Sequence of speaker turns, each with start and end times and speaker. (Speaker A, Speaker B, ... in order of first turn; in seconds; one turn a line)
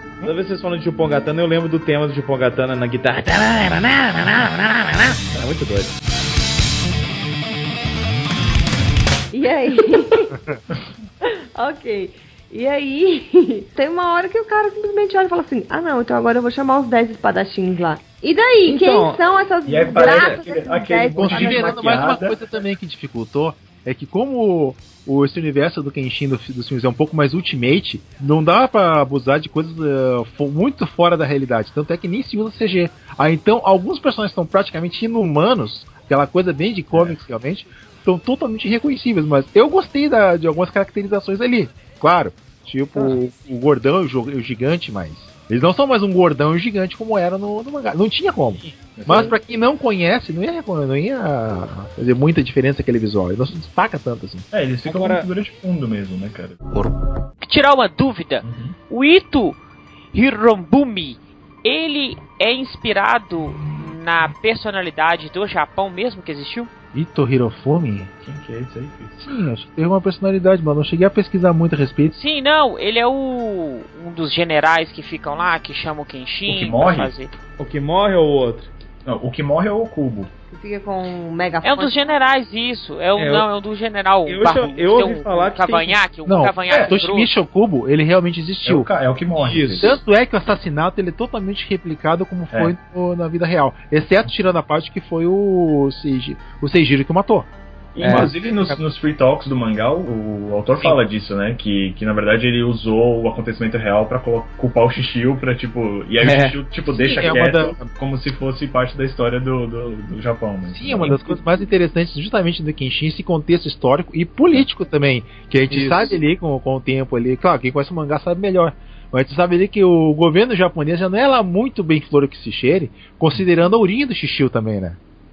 Speaker A: 0.2-5.9
Speaker B: 9.3-10.4
Speaker B: 11.5-22.1
Speaker A: 18.6-19.2
Speaker C: 19.6-22.4
Speaker D: 21.1-54.4
Speaker C: 36.9-37.2
Speaker C: 48.9-49.4
Speaker C: 54.5-56.6
Speaker A: 54.9-55.3
Speaker E: 57.4-59.6
Speaker C: 58.4-58.7
Speaker E: 60.1-66.7
Speaker D: 66.9-68.1
Speaker C: 68.2-69.3
Speaker D: 69.2-72.1
Speaker E: 72.1-77.3
Speaker C: 76.5-77.1
Speaker A: 77.6-78.7
Speaker C: 79.0-80.3
Speaker B: 80.5-82.0
Speaker E: 81.6-87.4
Speaker A: 83.2-83.5
Speaker A: 84.2-86.0
Speaker D: 86.3-88.9
Speaker C: 88.7-89.9
Speaker A: 89.4-89.9
Speaker D: 89.8-97.5
Speaker C: 97.9-111.4
Speaker A: 98.0-98.3
Speaker D: 98.0-98.8
Speaker A: 106.2-106.6
Speaker D: 106.9-107.8
Speaker D: 110.7-125.0
Speaker A: 115.7-116.2